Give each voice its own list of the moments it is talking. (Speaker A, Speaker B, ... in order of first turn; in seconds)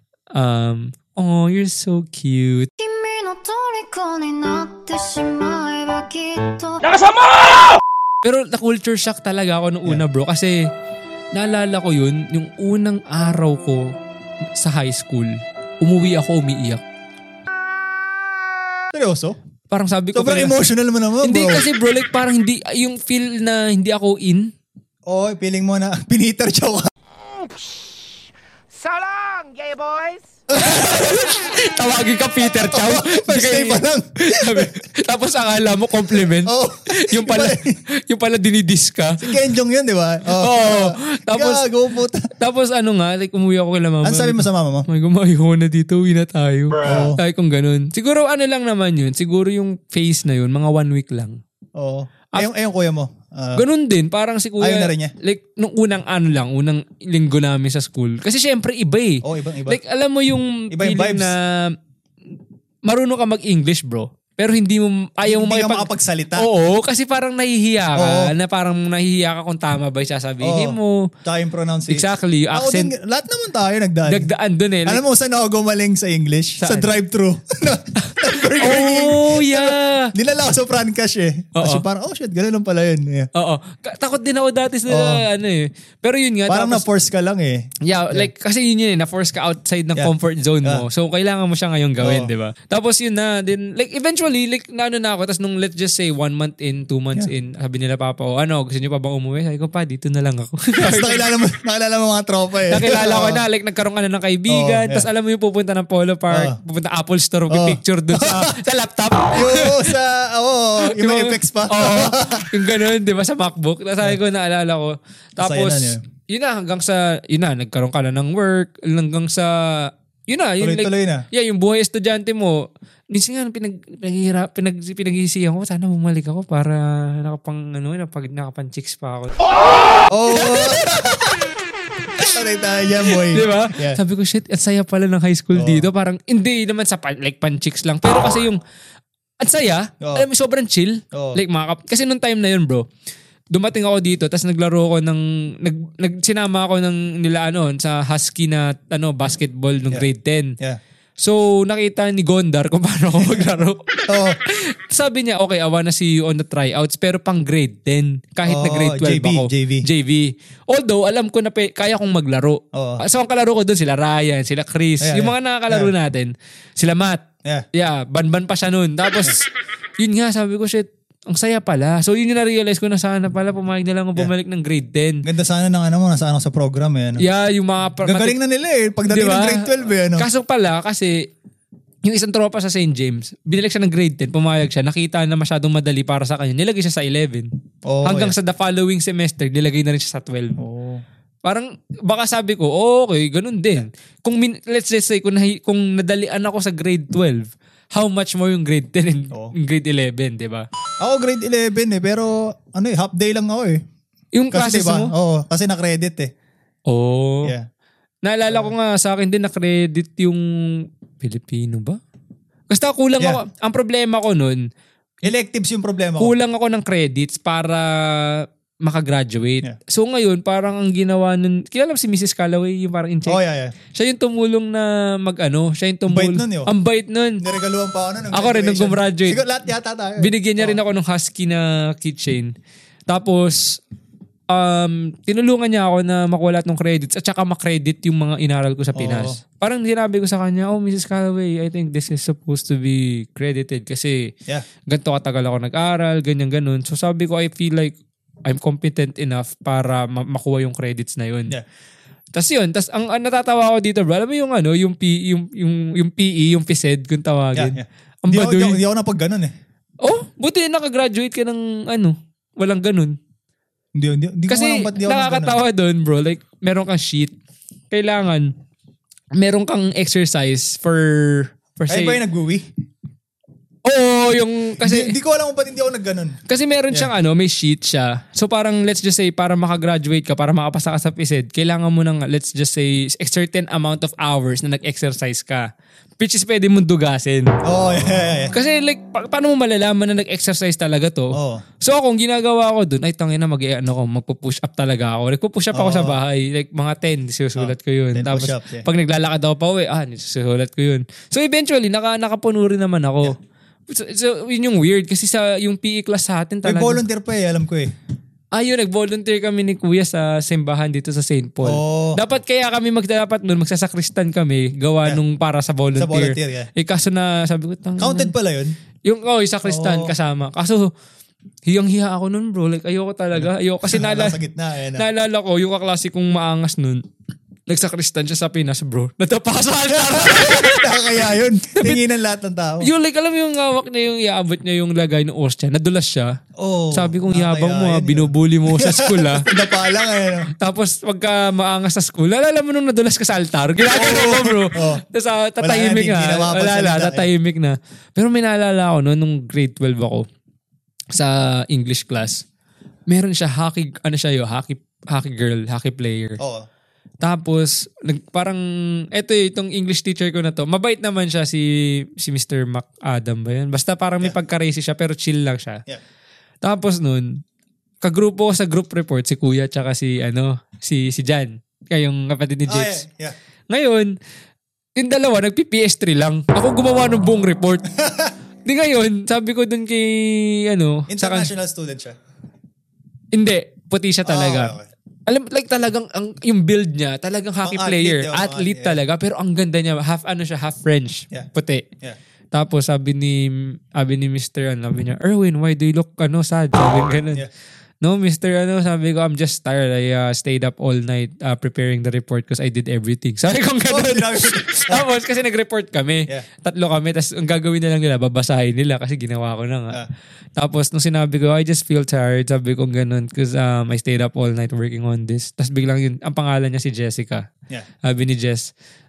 Speaker A: 0.3-2.7, 8.2-10.6, 11.3-13.9, 14.6-16.8, 19.7-20.6, 21.2-24.5, 30.5-39.3, 40.3-41.6, 42.4-51.4, 53.5-61.8, 62.9-71.1, 71.9-72.9, 74.1-75.0, 76.6-76.9, 78.0-80.1, 81.5-81.8, 83.3-86.8, 87.8-101.2, 102.7-109.9, 110.8-129.4, 130.4-130.8, 133.1-138.6, 139.4-142.8, 143.5-150.6, 151.2-153.8, 154.4-175.2, 177.2-178.4, 179.1-181.2, 182.0-187.5, 188.0-190.6, 191.4-200.7, 204.3-205.1, 206.9-207.5, 208.2-212.0, 212.7-214.6, 216.2-223.4, 223.9-227.4, 228.3-229.4, 230.2-232.5, 233.1-233.8, 234.5-244.3, 244.8-251.5, 252.3-258.8, 260.0-263.1, 264.5-267.3, 267.9-268.5, 269.4-272.2, 273.8-275.1, 276.5-285.6, 286.2-287.5, 288.5-303.3, 303.9-307.0, 308.5-318.3, 319.0-320.9, 321.6-324.4, 324.9-327.0, 327.7-330.9, 332.8-336.3, 336.9-339.5, 340.6-350.2, 351.1-352.4, 353.1-356.4, 357.2-365.8, 366.6-367.4, 368.0-373.0, 373.7-374.1, 375.0-377.8, 378.6-381.5, 383.3-391.9, 392.5-397.4, 398.0-410.0, 410.6-417.5, 418.0-418.7
Speaker B: 2.8-7.3
Speaker C: 6.9-7.8, 28.7-30.2
Speaker D: 18.9-19.4, 20.1-21.6, 25.1-26.9, 30.5-30.8, 32.5-34.8, 36.3-37.8, 39.2-42.3, 44.0-44.9, 46.8-47.2, 51.8-53.6, 54.6-55.1, 59.2-59.8, 60.7-61.3, 65.2-66.5, 68.0-68.3, 70.4-74.3, 74.8-83.3, 84.9-85.2, 86.5-88.3, 92.0-92.3, 100.8-103.4, 104.5-105.1, 106.3-106.6, 107.5-108.5, 109.3-112.5, 115.4-116.0, 120.6-121.2, 130.1-131.4, 132.2-134.0, 135.5-135.9, 141.1-141.4, 153.2-153.5, 154.1-154.4, 158.4-159.9, 162.7-163.0, 165.0-165.9, 175.2-177.2, 178.0-180.3, 187.8-188.3, 190.6-191.0, 201.0-203.8, 204.5-206.3, 208.5-208.7, 215.2-216.3, 223.2-223.7, 226.1-226.7, 227.4-230.8, 238.9-239.4, 257.5-259.5, 263.9-265.6, 271.9-272.7, 274.8-276.4, 287.6-288.6, 291.3-291.6, 295.7-296.2, 297.6-298.9, 306.6-307.9, 311.6-312.2, 315.9-316.7, 318.0-318.8, 319.6-320.1, 323.4-325.1, 329.9-332.9, 336.6-340.5, 343.8-345.0, 345.6-347.3, 356.4-356.6, 372.7-373.4, 377.9-378.3, 381.1-382.2, 384.2-384.9, 387.6-389.0, 403.9-405.1